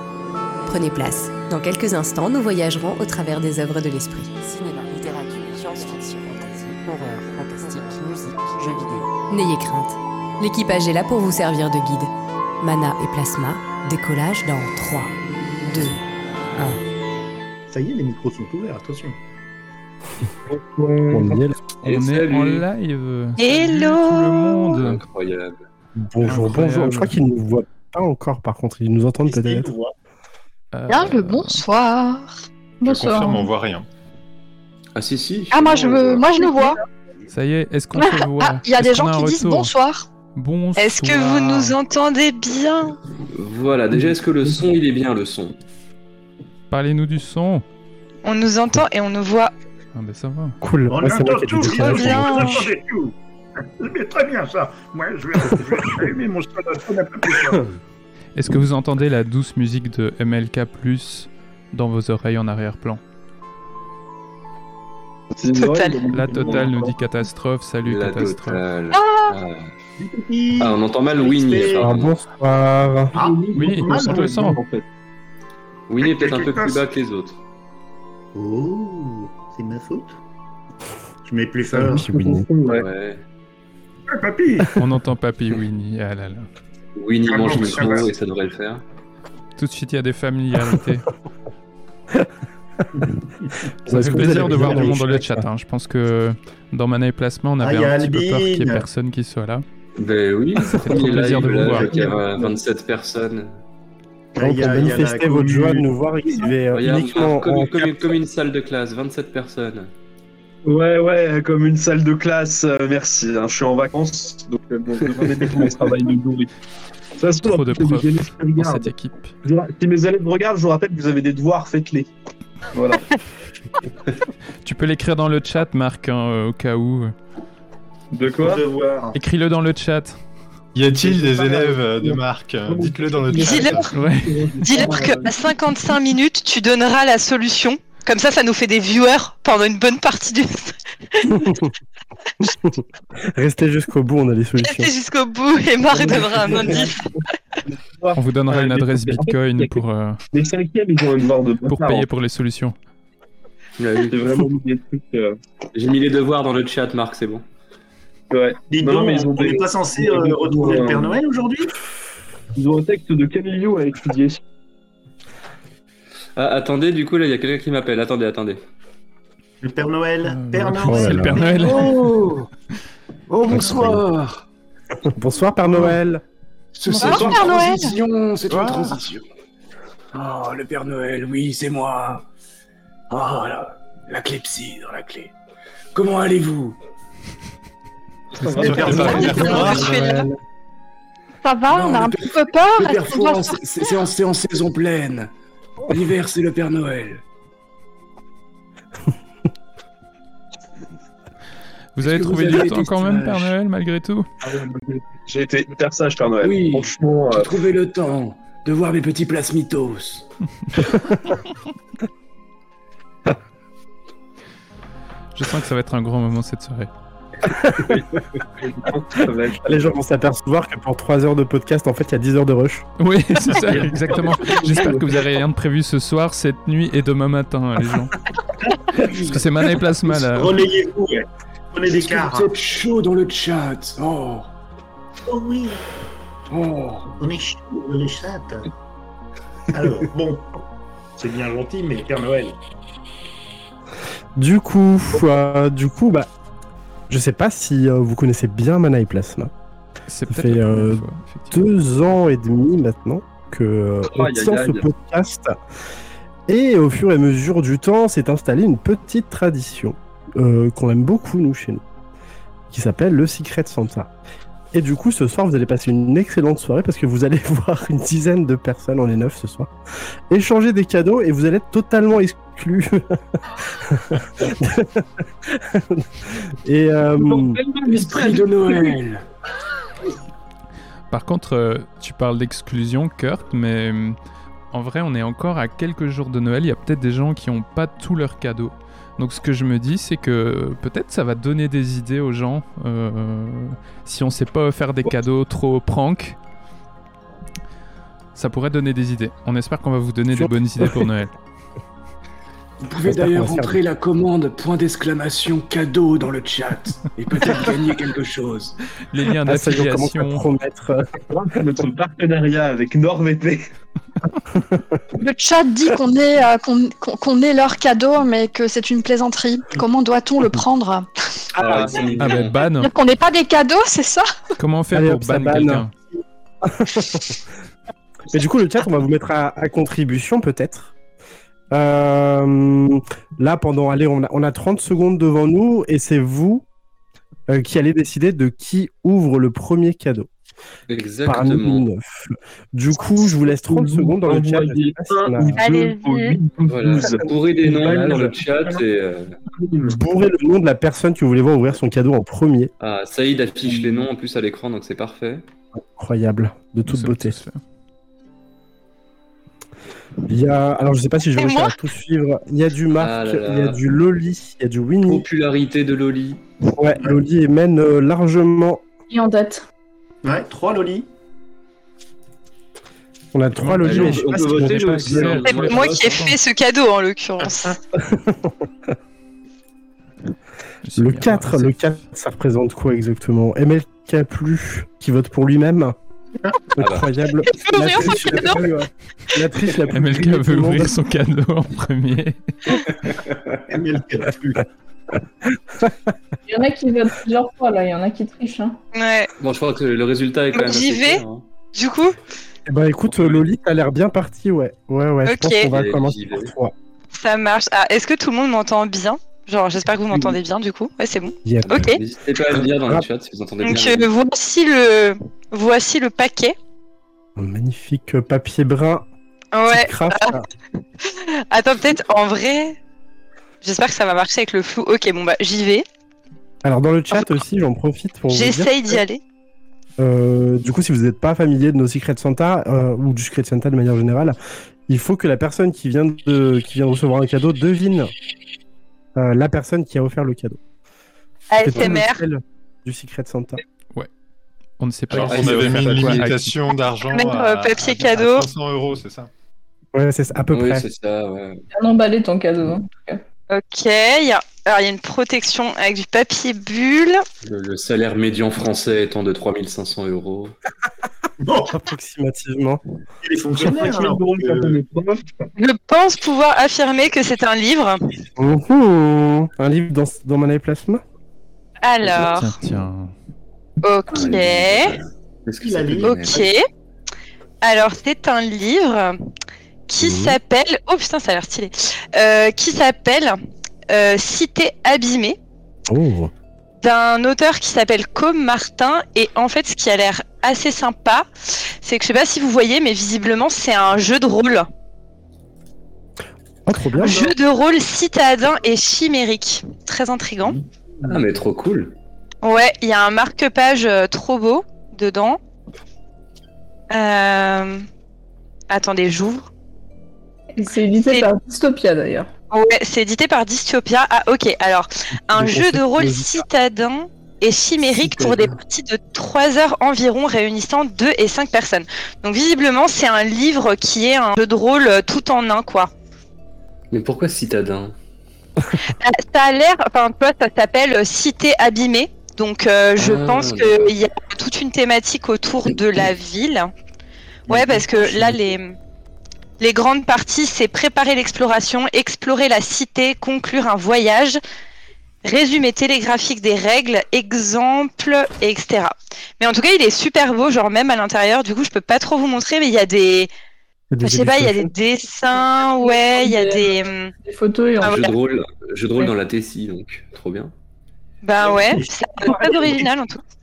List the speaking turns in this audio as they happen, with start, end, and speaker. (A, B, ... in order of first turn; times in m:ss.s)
0:00.7-0:04.4 A
0:04.4-0:09.1 B
0:09.3-0:16.0 A
0:16.6-0:16.8 A
0:17.7-0:19.2 C
0:20.5-0:21.4 D
0:21.1-0:21.6 E
0:21.8-0:25.0 F
0:21.8-0:22.7 G
0:23.4-0:24.8 H
0:24.8-0:25.6 G
0:26.0-0:29.7 E
0:26.2-0:27.2 F
0:29.2-0:29.9 C
0:30.7-0:31.6 F
0:30.9-0:32.4 I
0:32.8-0:33.5 J
0:32.8-0:33.9 K
0:35.0-0:36.4 G
0:35.5-0:36.8 I
0:37.3-0:39.7 F
0:38.0-0:40.1 I
0:40.3-0:41.8 F
0:40.8-0:43.0 H
0:43.3-0:45.6 G
0:46.7-0:47.6 F
0:48.2-0:49.5 H
0:49.9-0:50.6 F
0:50.6-0:52.7 E
0:50.9-0:53.1 C
0:51.6-0:52.6 H
0:53.8-0:57.6 C
0:58.4-1:03.0 F
1:05.4-1:07.0 D
1:05.5-1:06.1 H
1:06.1-1:08.6 F
1:07.8-1:09.7 G
1:08.9-1:09.4 H
1:10.0-1:11.9 C
1:10.6-1:12.1 G
1:11.8-1:13.2 E
1:13.1-1:14.5 C
1:13.2-1:14.8 D
1:13.5-1:14.6 F
1:15.9-1:17.4 G
1:16.0-1:16.8 C
1:18.4-1:20.2 C
1:21.2-1:22.1 C
1:21.7-1:22.5 E
1:21.8-1:22.9 D
1:22.7-1:23.2 G
1:24.1-1:24.8 C
1:24.8-1:26.5 F
1:27.0-1:28.8 G
1:27.3-1:28.1 C
1:29.6-1:31.1 F
1:33.0-1:35.2 C
1:33.9-1:39.6 F
1:33.9-1:35.4 E
1:37.6-1:38.9 C
1:40.0-1:43.6 G
1:40.8-1:41.9 F
1:40.9-1:42.3 C
1:41.1-1:42.5 D
1:44.4-1:46.5 C
1:44.4-1:48.2 E
1:46.7-1:49.9 G
1:50.6-1:56.5 D
1:57.2-1:58.9 D
1:57.4-1:59.3 F
1:59.4-2:02.1 D
2:02.7-2:03.0 D
2:04.6-2:07.2 F
2:08.2-2:08.6 D
2:08.3-2:09.2 C
2:09.1-2:10.2 F
2:10.7-2:14.0 K
2:11.0-2:15.4 D
2:13.4-2:13.8 H
2:13.9-2:14.5 F
2:14.6-2:21.5 H
2:21.3-2:21.7 E
2:22.7-2:24.9 E
2:24.6-2:27.0 H
2:25.9-2:27.1 D
2:27.6-2:29.8 D
2:28.2-2:30.2 F
2:30.3-2:32.0 D
2:31.7-2:32.8 F
2:33.8-2:34.2 G
2:34.1-2:35.4 D
2:35.7-2:37.4 G
2:38.3-2:41.2 D
2:38.7-2:41.7 C
2:42.6-2:44.4 D
2:46.4-2:48.6 G
2:49.6-2:52.5 C
2:50.2-2:52.2 F
2:50.7-2:51.4 E
2:51.6-2:52.4 L
2:53.3-2:54.4 L
2:53.5-2:54.0 E
2:55.1-2:56.2 E
2:55.6-2:56.0 L
2:56.7-2:59.2 L
2:56.9-2:58.0 I
2:57.0-2:57.5 H
2:58.5-2:58.8 C
3:00.1-3:02.2 L
3:03.1-3:05.3 L
3:05.9-3:06.8 L
3:08.3-3:09.4 D
3:08.4-3:09.9 F
3:08.5-3:10.3 K
3:08.6-3:10.0 C
3:08.9-3:10.3 H
3:11.4-3:14.0 I
3:11.7-3:15.3 L
3:15.9-3:17.2 L
3:22.0-3:24.3 F
3:22.0-3:23.5 L
3:24.4-3:27.5 D
3:26.4-3:30.2 L
3:35.4-3:36.9 F
3:37.5-3:37.9 E
3:38.6-3:39.9 D
3:39.6-3:42.9 E
3:43.0-3:48.1 F
3:43.5-3:45.2 D
3:48.9-3:49.5 L
3:49.3-3:50.6 F
3:50.0-3:52.5 C
3:51.9-3:54.5 L
3:55.3-3:55.8 C
3:56.5-3:57.1 L
3:57.2-3:58.7 C
3:59.7-4:00.5 C
4:01.2-4:02.6 C
4:04.4-4:06.3 E
4:07.1-4:09.5 E
4:10.1-4:11.6 F
4:10.3-4:15.5 E
4:14.1-4:14.9 D
4:16.5-4:21.8 E
4:22.7-4:24.1 E
4:24.7-4:29.7 E
4:30.3-4:33.2 E
4:33.8-4:36.1 E
4:36.6-4:37.6 E
4:37.2-4:39.0 D
4:37.9-4:39.2 L
4:41.1-4:44.2 F
4:44.7-4:56.4 F
4:58.4-5:01.3 F
5:00.3-5:01.0 E
5:02.8-5:08.8 L
5:03.1-5:03.8 E
5:09.1-5:10.4 F
5:09.4-5:11.1 E
5:11.3-5:13.7 D
5:15.2-5:21.1 I
5:21.6-5:22.6 G
5:21.6-5:22.3 D
5:22.2-5:22.9 F
5:22.7-5:24.3 I
5:24.6-5:25.9 F
5:24.9-5:27.4 E
5:28.3-5:30.9 E
5:31.7-5:36.6 E
5:37.5-5:40.3 E
5:40.9-5:41.8 G
5:41.3-5:45.5 E
5:43.5-5:48.4 D
5:45.6-5:46.4 H
5:46.7-5:49.4 G
5:47.7-5:48.2 E
5:49.6-5:50.0 D
5:49.9-5:52.7 E
5:52.8-5:55.4 G
5:53.7-5:54.0 D
5:56.0-5:57.4 E
5:56.9-5:57.6 F
6:00.3-6:05.3 E
6:01.4-6:01.7 H
6:03.0-6:03.8 G
6:05.1-6:06.4 G
6:06.8-6:08.8 E
6:09.1-6:09.6 J
6:10.2-6:11.1 C
6:13.3-6:15.4 E
6:13.6-6:16.4 F
6:13.8-6:16.2 G
6:15.5-6:17.8 H
6:18.0-6:18.6 E
6:20.8-6:21.9 F
6:21.0-6:26.0 E
6:26.8-6:31.0 E
6:26.8-6:27.1 G
6:27.5-6:28.6 H
6:29.9-6:32.8 F
6:33.7-6:34.6 C
6:36.5-6:38.8 J
6:38.9-6:39.3 H
6:39.4-6:41.4 G
6:40.5-6:41.2 H
6:41.8-6:42.2 H
6:42.7-6:46.7 E
6:43.1-6:43.4 G
6:45.2-6:45.7 H
6:45.7-6:46.5 G
6:47.1-6:52.0 H
6:51.4-6:52.0 E
6:52.0-6:54.1 G
6:53.6-6:56.6 H
6:57.4-6:59.1 E
6:59.5-7:00.4 H
6:59.7-7:00.5 E
7:01.0-7:02.8 H
7:03.6-7:05.8 H
7:06.6-7:09.0 E
7:08.3-7:09.2 H
7:10.0-7:14.4 E
7:14.9-7:18.1 E
7:19.2-7:20.6 E
7:21.5-7:22.2 H
7:21.6-7:23.6 E
7:24.8-7:26.6 F
7:25.1-7:29.3 K
7:25.1-7:26.3 G
7:27.1-7:28.5 H
7:29.9-7:30.8 E
7:30.5-7:31.6 G
7:31.7-7:33.2 J
7:33.5-7:37.2 H
7:37.4-7:40.5 G
7:41.4-7:41.8 C
7:41.7-7:42.8 E
7:43.2-7:44.8 C
7:43.6-7:45.3 D
7:45.6-7:48.0 H
7:48.4-7:51.0 E
7:51.8-7:52.5 H
7:52.2-7:53.1 F
7:53.8-7:55.0 H
7:54.1-7:56.4 G
7:55.6-7:56.5 C
7:56.0-7:56.6 H
7:57.6-7:59.2 H
7:59.9-8:03.4 H
8:00.0-8:00.4 E
8:03.9-8:05.4 H
8:05.9-8:06.3 E
8:06.8-8:11.3 H
8:11.8-8:14.7 H
8:16.7-8:17.3 E
8:17.0-8:20.6 H
8:20.5-8:21.2 C
8:21.1-8:22.0 G
8:22.4-8:25.4 H
8:26.9-8:27.8 H
8:28.7-8:29.5 H
8:30.5-8:32.3 J
8:32.5-8:45.9 H
8:35.3-8:36.4 E
8:38.0-8:38.5 G
8:46.9-8:48.0 G
8:48.8-8:56.7 H
8:53.0-8:53.9 G
8:57.5-8:58.5 G
8:57.5-8:58.8 H
8:59.6-9:04.4 H
9:05.2-9:13.3 H
9:13.9-9:14.7 E
9:14.0-9:17.1 H
9:15.8-9:18.0 J
9:17.8-9:18.1 H
9:17.8-9:20.5 G
9:21.2-9:23.2 H